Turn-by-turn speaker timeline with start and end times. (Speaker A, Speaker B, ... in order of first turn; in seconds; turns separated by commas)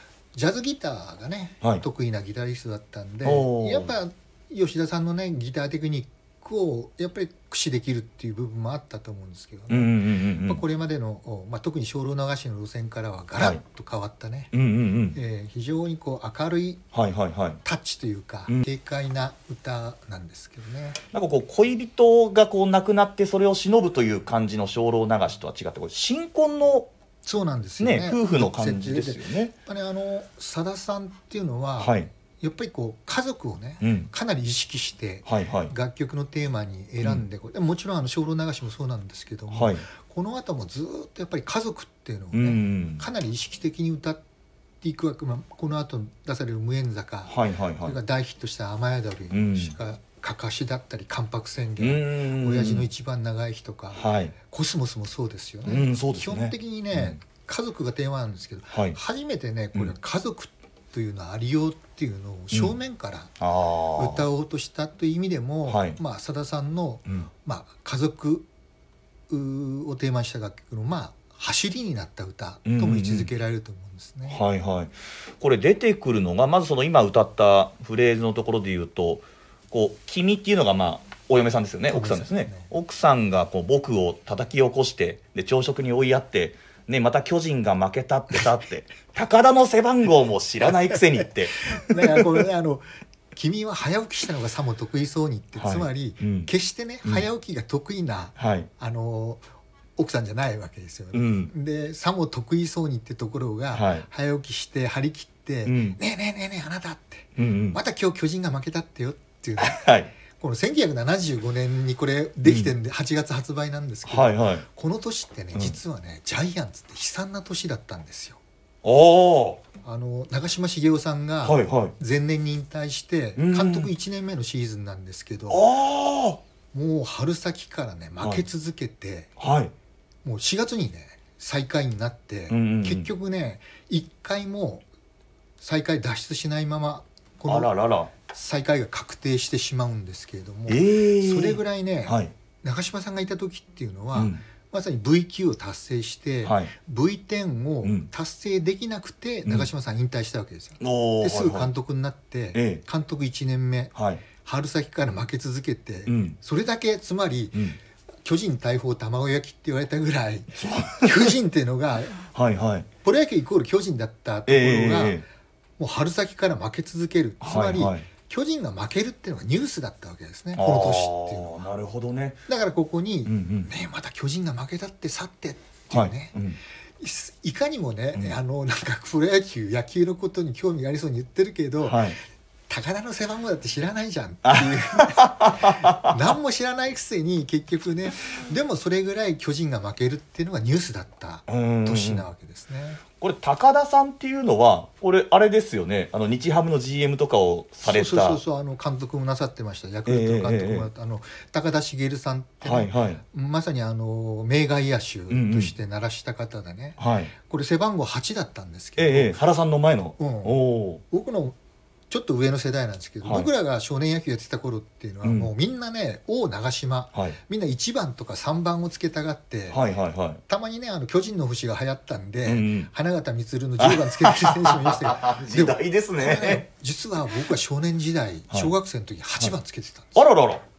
Speaker A: 0.3-14.5, Speaker B: 3.2-3.9, Speaker B: 9.7-10.6, Speaker B: 14.5-15.2, Speaker A: 15.1-16.8, Speaker B: 16.9-17.6, Speaker A: 17.6-21.0, Speaker B: 21.1-26.9, Speaker A: 27.2-44.2, Speaker B: 27.8-29.5, Speaker B: 31.8-32.1, Speaker B: 33.8-34.1, Speaker B: 35.2-35.7, Speaker B: 39.5-39.9, Speaker B: 42.3-43.0, Speaker A: 44.8-63.3, Speaker B: 47.2-48.0, Speaker B: 49.3-49.8, Speaker B: 51.8-52.9, Speaker B: 53.9-54.3, Speaker B: 55.6-57.2, Speaker B: 58.7-59.0, Speaker B: 63.4-64.3, Speaker A: 64.0-68.5, Speaker B: 65.7-66.0, Speaker A: 69.3-74.4, Speaker B: 72.6-73.3, Speaker B: 74.3-92.4, Speaker A: 81.9-82.7, Speaker A: 91.6-99.4, Speaker B: 95.6-96.5, Speaker B: 98.4-98.7, Speaker A: 100.0-118.4, Speaker B: 101.1-101.5, Speaker B: 103.7-104.1, Speaker B: 105.7-106.0, Speaker B: 107.4-107.8, Speaker B: 109.6-110.1, Speaker B: 112.4-112.7, Speaker B: 114.0-114.6, Speaker B: 115.5-115.8, Speaker B: 118.8-119.6, Speaker A: 119.8-125.7, Speaker B: 121.4-121.9, Speaker B: 123.4-123.9, Speaker B: 125.5-126.4, Speaker A: 126.7-129.3, Speaker B: 128.2-128.4, Speaker B: 129.4-129.7, Speaker A: 130.2-134.8, Speaker B: 132.5-133.1, Speaker A: 135.6-162.2, Speaker B: 137.5-138.1, Speaker B: 140.7-142.3, Speaker B: 144.1-144.4, Speaker B: 146.4-146.7, Speaker B: 147.8-148.1, Speaker B: 150.8-151.7, Speaker B: 152.5-152.8, Speaker B: 153.9-154.2, Speaker B: 156.1-156.3, Speaker B: 160.6-161.3, Speaker B: 162.3-162.9, Speaker A: 163.0-165.2, Speaker B: 164.5-165.2, Speaker A: 165.8-171.7, Speaker B: 167.4-168.1, Speaker B: 170.5-172.4, Speaker A: 172.5-176.3, Speaker B: 173.2-173.7, Speaker B: 175.9-176.6, Speaker A: 177.0-182.2, Speaker B: 181.8-182.2, Speaker A: 182.7-193.0, Speaker B: 184.4-186.2, Speaker B: 191.5-192.2, Speaker B: 193.2-198.4, Speaker A: 197.8-209.4, Speaker B: 200.1-200.9, Speaker B: 202.6-203.2, Speaker B: 205.3-205.7, Speaker B: 207.0-207.3, Speaker B: 209.0-211.0, Speaker A: 210.2-211.6, Speaker A: 212.1-219.8, Speaker B: 213.2-213.5, Speaker B: 215.2-215.5, Speaker B: 219.7-220.4, Speaker A: 220.5-230.2, Speaker B: 222.4-222.9, Speaker B: 223.8-226.6, Speaker B: 230.1-230.6